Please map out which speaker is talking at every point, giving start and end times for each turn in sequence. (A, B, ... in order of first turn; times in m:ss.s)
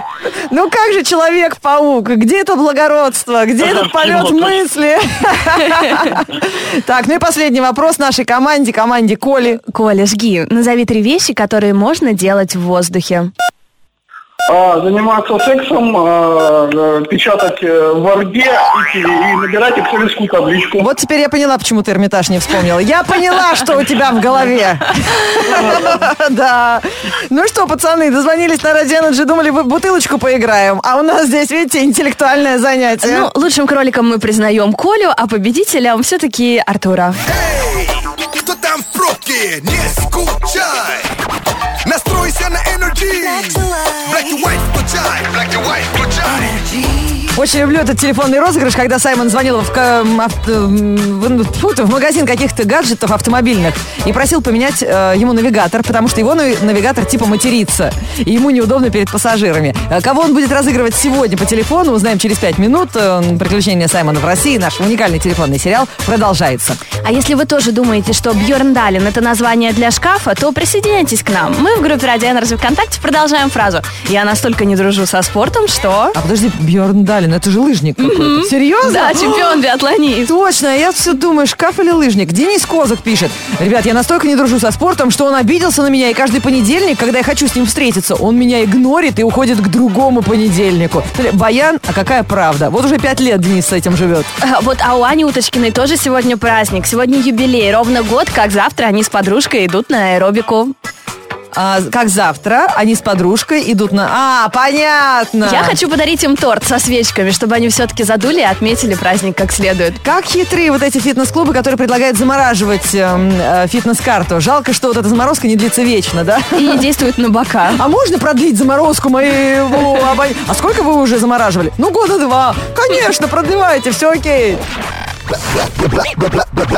0:00.3-0:09.6 A
0:09.7-0:13.3 B
0:14.5-0:20.9 C
0:20.8-0:33.3 A
0:33.0-0:37.2 B
0:37.3-0:41.1 D
0:41.8-0:46.6 D
0:47.3-1:06.8 A
1:07.0-1:16.2 B
1:16.2-1:19.6 A
1:18.0-1:20.3 B
1:20.3-1:34.3 A
1:34.4-1:40.7 B
1:41.5-1:45.8 A
1:45.4-1:50.0 B
1:50.0-1:56.9 A
1:56.6-1:57.8 B
1:57.8-2:04.6 A